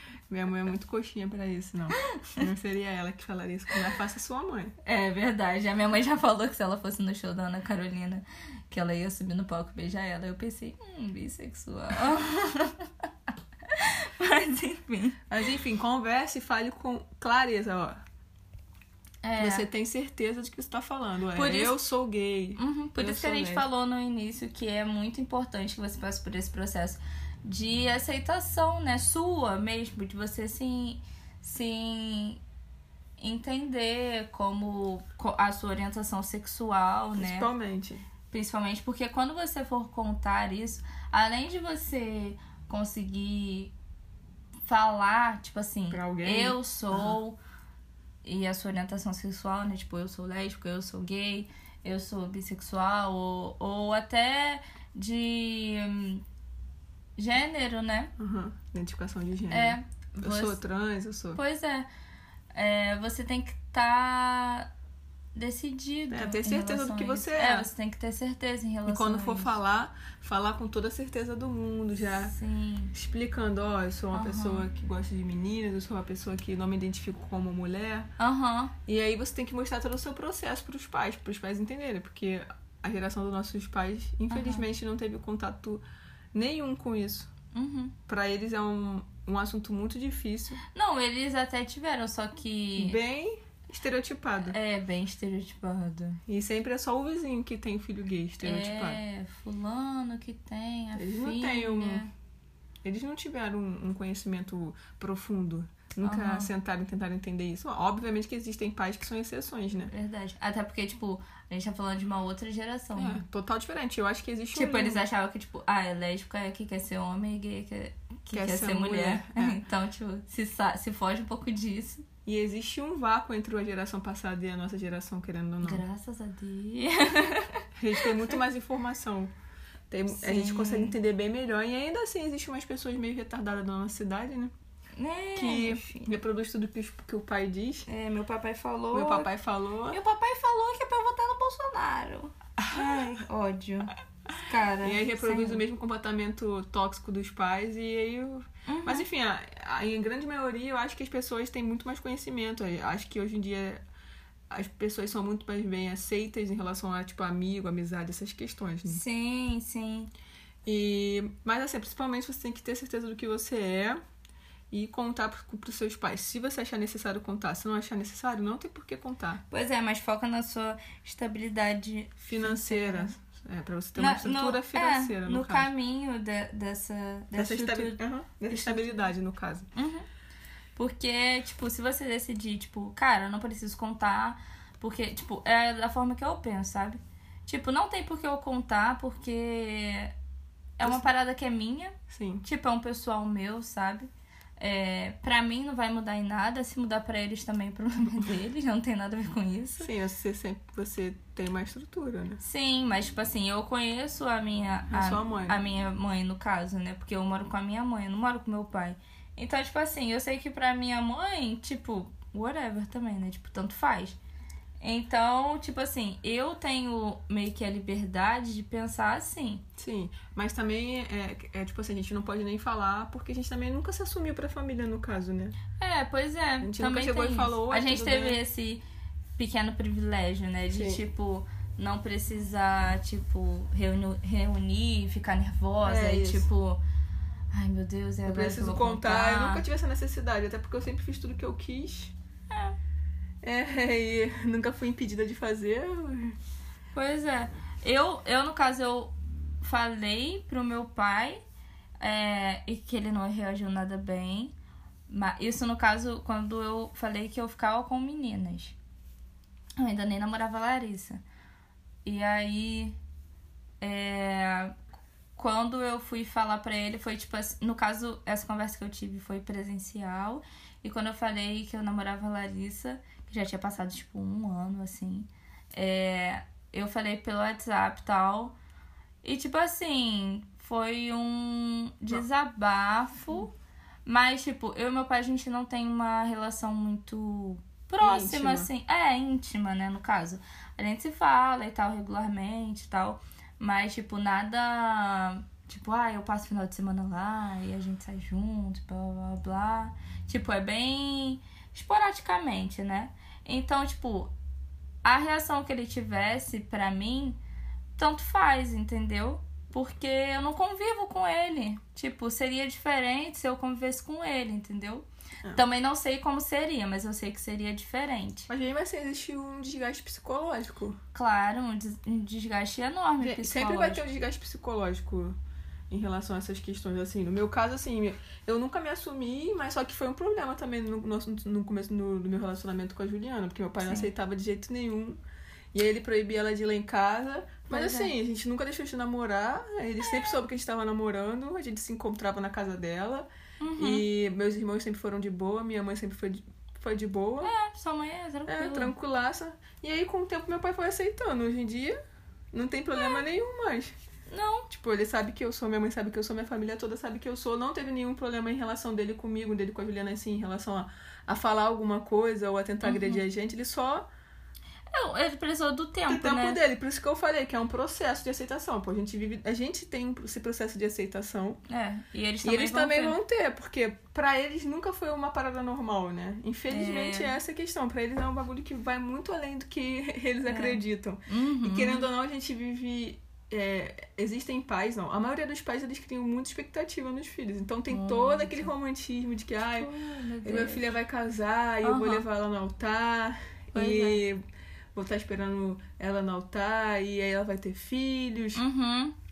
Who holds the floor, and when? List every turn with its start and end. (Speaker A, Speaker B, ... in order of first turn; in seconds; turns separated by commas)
Speaker A: 0.3-4.7, Speaker B: 1.9-2.4, Speaker B: 4.8-12.9, Speaker B: 13.7-15.2, Speaker A: 15.3-18.0, Speaker B: 19.2-19.7, Speaker A: 19.4-23.7, Speaker B: 21.4-21.8, Speaker B: 22.6-32.4, Speaker B: 33.2-37.5, Speaker A: 37.2-38.0, Speaker B: 38.3-43.7, Speaker B: 44.6-47.4, Speaker A: 45.9-47.2, Speaker B: 48.2-56.2, Speaker B: 57.2-58.1, Speaker A: 58.2-61.4, Speaker B: 59.5-60.6, Speaker B: 61.4-61.9, Speaker B: 62.5-64.7, Speaker B: 65.3-69.6, Speaker A: 66.1-67.7, Speaker A: 68.9-72.3, Speaker B: 72.2-72.9, Speaker A: 72.9-78.1, Speaker B: 74.1-74.7, Speaker B: 78.2-78.7, Speaker A: 78.9-85.8, Speaker B: 84.3-84.7, Speaker A: 86.3-87.3, Speaker B: 87.5-88.0, Speaker A: 88.1-90.6, Speaker B: 90.7-93.0, Speaker A: 92.8-94.6, Speaker B: 94.4-96.2, Speaker A: 96.3-99.0, Speaker B: 98.4-102.1, Speaker A: 101.0-102.1, Speaker A: 102.8-109.9, Speaker B: 106.0-106.5, Speaker B: 109.9-113.2, Speaker A: 113.0-115.0, Speaker B: 114.5-122.1, Speaker A: 118.3-119.6, Speaker A: 122.3-125.8, Speaker B: 125.6-128.4, Speaker A: 127.8-129.3, Speaker A: 129.9-134.5, Speaker B: 130.1-131.0, Speaker B: 135.0-136.2, Speaker A: 135.3-137.9, Speaker B: 137.9-139.3, Speaker A: 138.9-140.0, Speaker B: 139.9-145.6, Speaker A: 142.6-143.1, Speaker A: 144.8-153.8, Speaker B: 148.7-149.1, Speaker A: 154.5-159.0, Speaker B: 158.9-160.1, Speaker A: 160.7-164.0, Speaker A: 164.7-169.4, Speaker B: 169.5-173.1, Speaker A: 172.2-175.7, Speaker B: 174.0-179.1, Speaker A: 177.3-179.7, Speaker B: 179.8-180.1, Speaker B: 180.8-190.1, Speaker B: 190.8-199.9, Speaker A: 192.1-192.4, Speaker A: 199.8-202.4, Speaker B: 202.4-214.2, Speaker A: 204.9-205.6, Speaker B: 214.8-219.7, Speaker A: 219.8-225.6, Speaker B: 225.8-228.8, Speaker A: 226.6-228.4, Speaker B: 229.4-236.8, Speaker A: 230.7-231.0, Speaker A: 235.8-236.5, Speaker B: 237.5-239.6, Speaker A: 238.3-242.1, Speaker B: 242.5-242.8, Speaker A: 243.4-246.4, Speaker B: 246.9-251.4, Speaker B: 252.0-254.5, Speaker B: 255.1-258.8, Speaker B: 259.8-261.2, Speaker B: 262.1-263.0, Speaker B: 263.8-264.8, Speaker B: 265.4-278.6, Speaker B: 279.2-283.5, Speaker B: 284.1-304.3, Speaker A: 288.0-288.7, Speaker B: 305.0-307.4, Speaker B: 308.0-318.5, Speaker A: 318.5-321.0, Speaker B: 321.1-324.0, Speaker A: 323.2-325.4, Speaker A: 325.9-335.2, Speaker B: 333.8-334.1, Speaker A: 335.7-347.5, Speaker B: 337.7-338.1, Speaker B: 340.0-340.4, Speaker B: 343.6-344.1, Speaker B: 347.4-348.9, Speaker A: 348.5-352.0, Speaker A: 352.5-353.9, Speaker B: 353.0-353.2, Speaker B: 354.3-354.7, Speaker A: 354.7-364.1, Speaker B: 362.8-363.2, Speaker B: 364.9-366.6, Speaker A: 366.1-371.6, Speaker B: 371.7-373.2, Speaker A: 372.4-389.9, Speaker B: 376.7-377.4, Speaker B: 380.5-382.1, Speaker B: 387.9-388.7, Speaker B: 389.8-390.9, Speaker A: 390.4-394.4, Speaker B: 391.8-392.2, Speaker B: 393.8-394.2, Speaker A: 394.9-398.6, Speaker B: 398.6-399.2